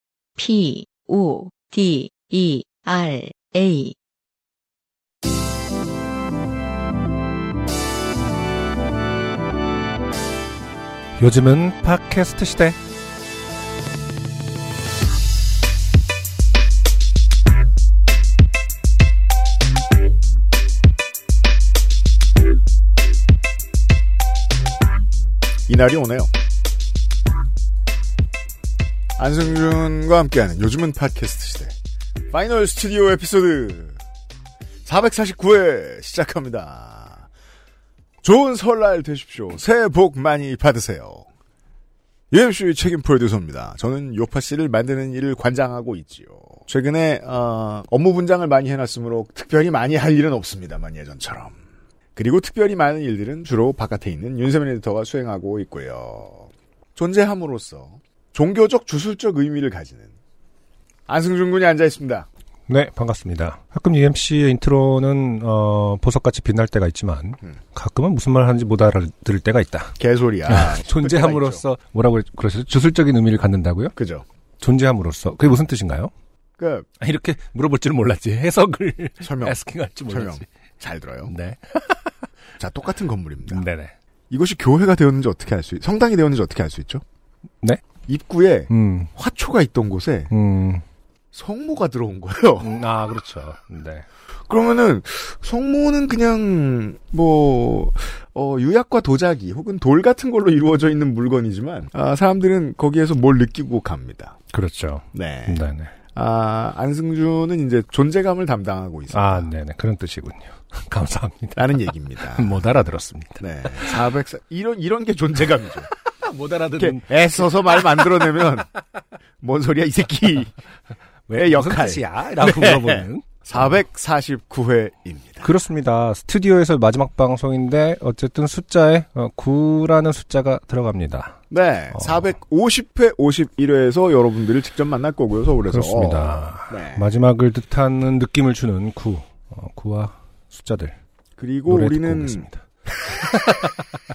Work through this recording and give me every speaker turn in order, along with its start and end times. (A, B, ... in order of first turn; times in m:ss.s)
0:00.4-0:04.0 A
0:11.2-0:12.8 B
0:25.7-0:26.3 C
0:29.2-0:31.7 C
0:32.3-0:34.0 C
0:34.8-0:37.3 C
0:38.2-0:41.2 C
0:42.3-0:51.6 C
0:52.2-1:00.1 C
1:01.1-1:02.3 C
1:02.7-1:10.0 B
1:10.0-1:11.6 C
1:10.5-1:13.9 B
1:14.0-1:14.2 C
1:14.6-1:16.1 B
1:16.6-1:16.9 C
1:17.0-1:20.4 B
1:19.2-1:21.3 C
1:21.3-1:22.1 B
1:22.6-1:23.6 C
1:23.5-1:23.9 B
1:24.3-1:27.0 C
1:28.1-1:30.3 C
1:28.7-1:29.1 B
1:30.3-1:30.8 B
1:31.3-1:32.7 C
1:32.6-1:34.1 B
1:34.5-1:44.4 C
1:44.5-1:45.9 B
1:45.1-1:45.6 C
1:46.1-1:49.5 C
1:49.1-1:51.6 B
1:51.5-1:52.6 C
1:52.2-1:53.9 B
1:53.4-1:55.9 C
1:56.1-1:58.2 B
1:56.8-1:58.7 C
1:59.4-2:00.5 C
2:01.3-2:03.2 B
2:01.3-2:05.5 C
2:05.4-2:11.4 B
2:11.5-2:17.0 C
2:11.9-2:12.3 B
2:15.7-2:21.0 B
2:21.4-2:23.4 C
2:21.7-2:23.8 B